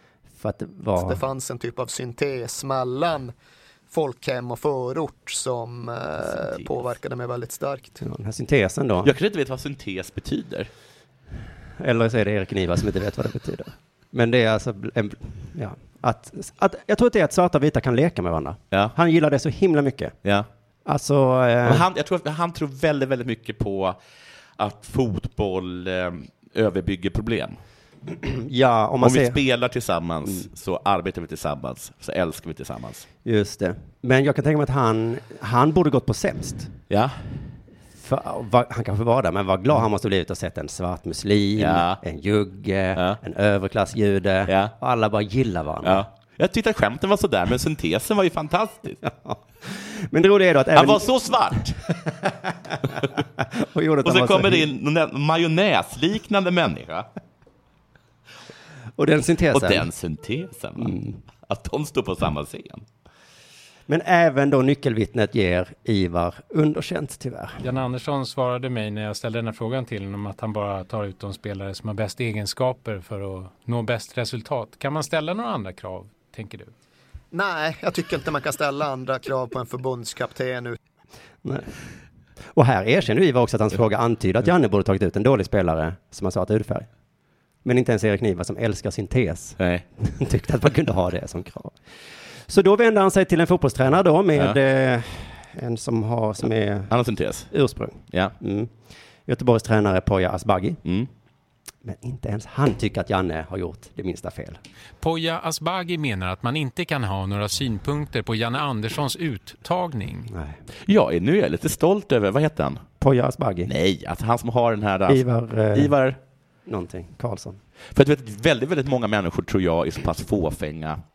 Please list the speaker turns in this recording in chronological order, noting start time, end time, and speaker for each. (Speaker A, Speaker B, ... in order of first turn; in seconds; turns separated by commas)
Speaker A: 0.4-1.2, Speaker B: 1.0-3.3, Speaker B: 3.9-8.0, Speaker C: 6.2-6.9, Speaker A: 8.0-9.1, Speaker C: 9.0-10.7, Speaker A: 11.8-20.1, Speaker A: 20.9-21.8, Speaker C: 21.6-24.0, Speaker C: 24.6-27.6, Speaker A: 28.1-29.4, Speaker C: 29.0-33.0, Speaker A: 33.2-36.7, Speaker C: 36.9-37.2, Speaker A: 38.0-46.0, Speaker C: 41.5-42.0, Speaker C: 44.5-44.7, Speaker C: 45.8-49.0, Speaker A: 49.0-51.1, Speaker C: 50.7-51.8, Speaker A: 51.9-54.7, Speaker C: 54.0-57.1, Speaker A: 59.0-59.9, Speaker C: 59.5-62.8, Speaker A: 60.8-61.2, Speaker A: 63.9-67.6, Speaker D: 67.6-76.7, Speaker B: 77.3-80.8, Speaker A: 81.4-81.7, Speaker A: 82.5-86.9, Speaker A: 87.6-91.8, Speaker C: 89.6-89.8, Speaker A: 92.5-96.9, Speaker C: 96.9-97.5, Speaker A: 97.5-98.7, Speaker A: 99.3-100.8, Speaker A: 101.8-104.6, Speaker D: 105.0-110.3, Speaker A: 110.3-110.6, Speaker C: 110.8-112.8, Speaker A: 113.0-113.7, Speaker C: 113.7-116.2, Speaker A: 115.1-115.9, Speaker A: 116.7-117.6, Speaker C: 117.9-121.0